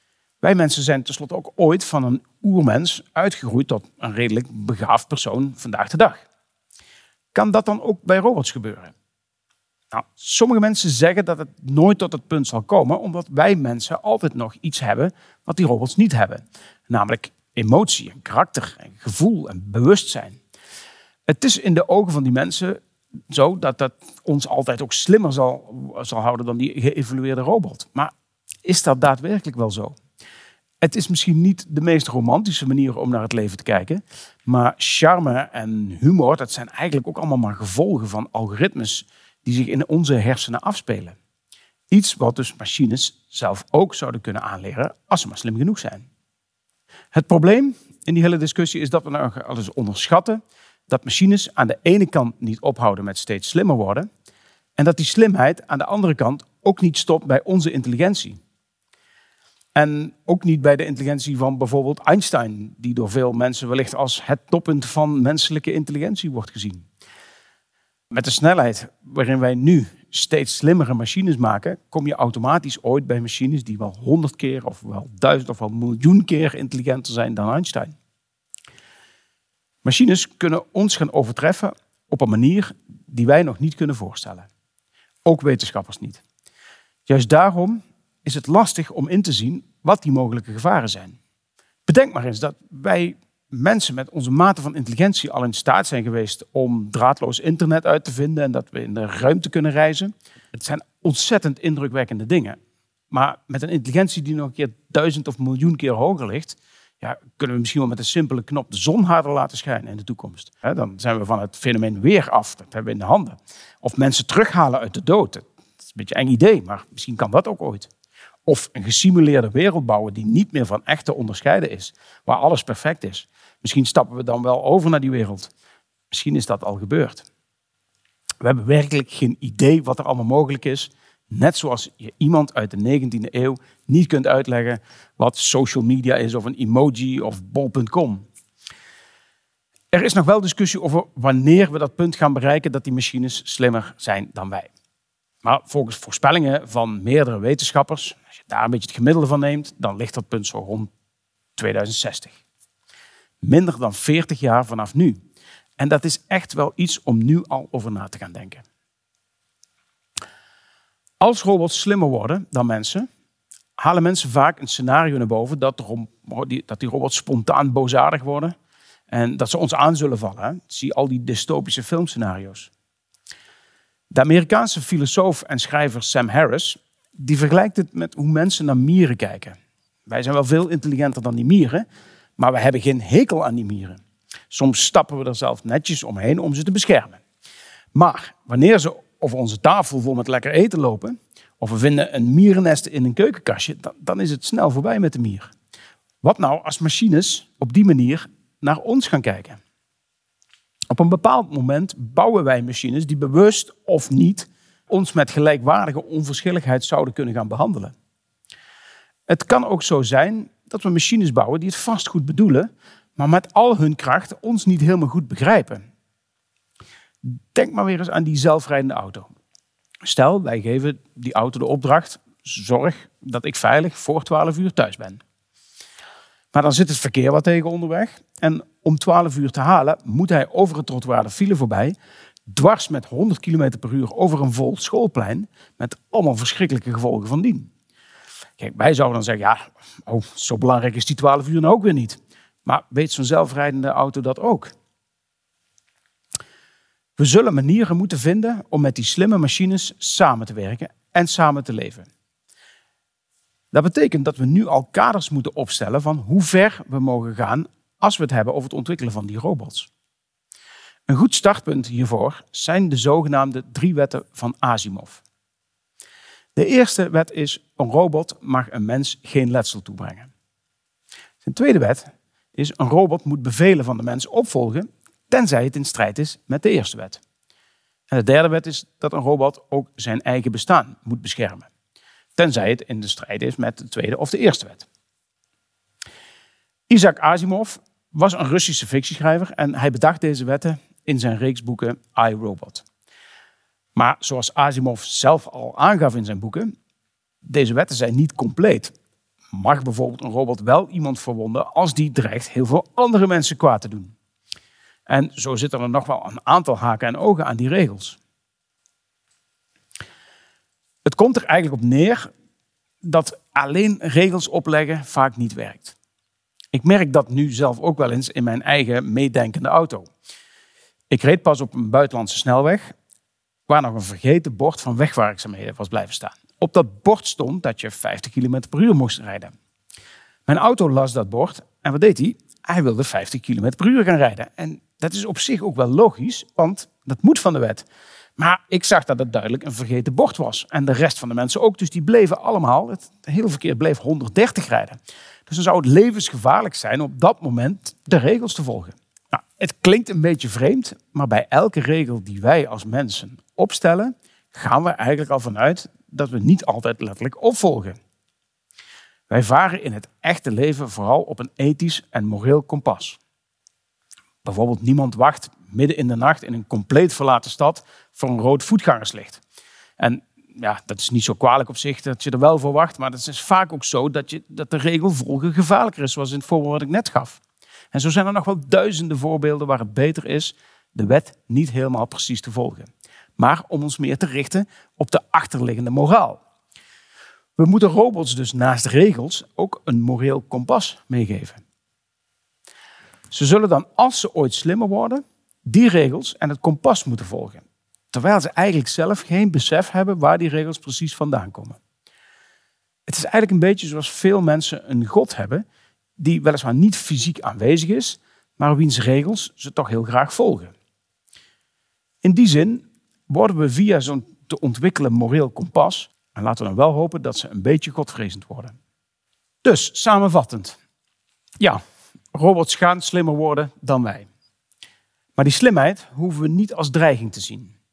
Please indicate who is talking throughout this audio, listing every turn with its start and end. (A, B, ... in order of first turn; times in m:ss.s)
0:00.4-0:06.2 A
0:07.3-0:08.9 A
0:09.9-0:20.4 A
0:21.3-0:28.1 A
0:28.6-0:30.0 A
0:30.8-0:41.2 A
0:41.9-0:46.1 A
0:47.1-0:54.1 A
0:54.8-0:58.4 A
0:59.8-1:06.9 A
1:08.1-1:17.9 A
1:19.8-1:24.5 A
1:25.2-1:26.2 A
1:27.1-1:31.2 A
1:31.9-1:42.6 A
1:43.1-1:57.9 A
1:58.5-2:05.5 A
2:06.1-2:07.2 A
2:08.4-2:18.3 A
2:19.9-2:24.7 A
2:25.4-2:30.9 A
2:31.6-2:32.4 A
2:33.4-2:35.2 A
2:35.8-2:38.6 A
2:41.2-2:43.1 A
2:43.8-2:48.5 A
2:49.1-2:52.7 A
2:54.1-2:59.6 A
3:00.1-3:01.8 A
3:02.4-3:04.0 A
3:04.5-3:07.2 A
3:07.9-3:15.5 A
3:16.2-3:19.6 A
3:20.9-3:27.9 A
3:29.3-3:35.8 A
3:37.2-3:39.3 A
3:40.0-3:45.2 A
3:46.5-3:52.0 A
3:52.5-3:57.7 A
3:58.6-4:04.7 A
4:07.2-4:12.1 A
4:13.7-4:19.9 A
4:21.1-4:25.2 A
4:26.6-4:30.3 A
4:31.4-4:37.2 A
4:38.1-4:41.7 A
4:42.4-4:44.9 A
4:46.9-4:52.8 A
4:54.0-4:56.7 A
4:57.4-4:58.9 A
4:59.5-5:04.1 A
5:05.1-5:08.2 A
5:11.0-5:12.3 A
5:13.0-5:16.0 A
5:16.7-5:20.1 A
5:21.1-5:22.9 A
5:23.7-5:29.5 A
5:30.5-5:37.8 A
5:38.4-5:58.0 A
5:59.3-6:03.2 A
6:04.4-6:09.4 A
6:10.0-6:17.4 A
6:17.9-6:26.4 A
6:27.6-6:31.6 A
6:33.3-6:41.8 A
6:43.1-6:45.6 A
6:46.2-6:50.7 A
6:52.2-6:58.7 A
6:59.6-7:00.8 A
7:02.3-7:04.3 A
7:05.4-7:07.7 A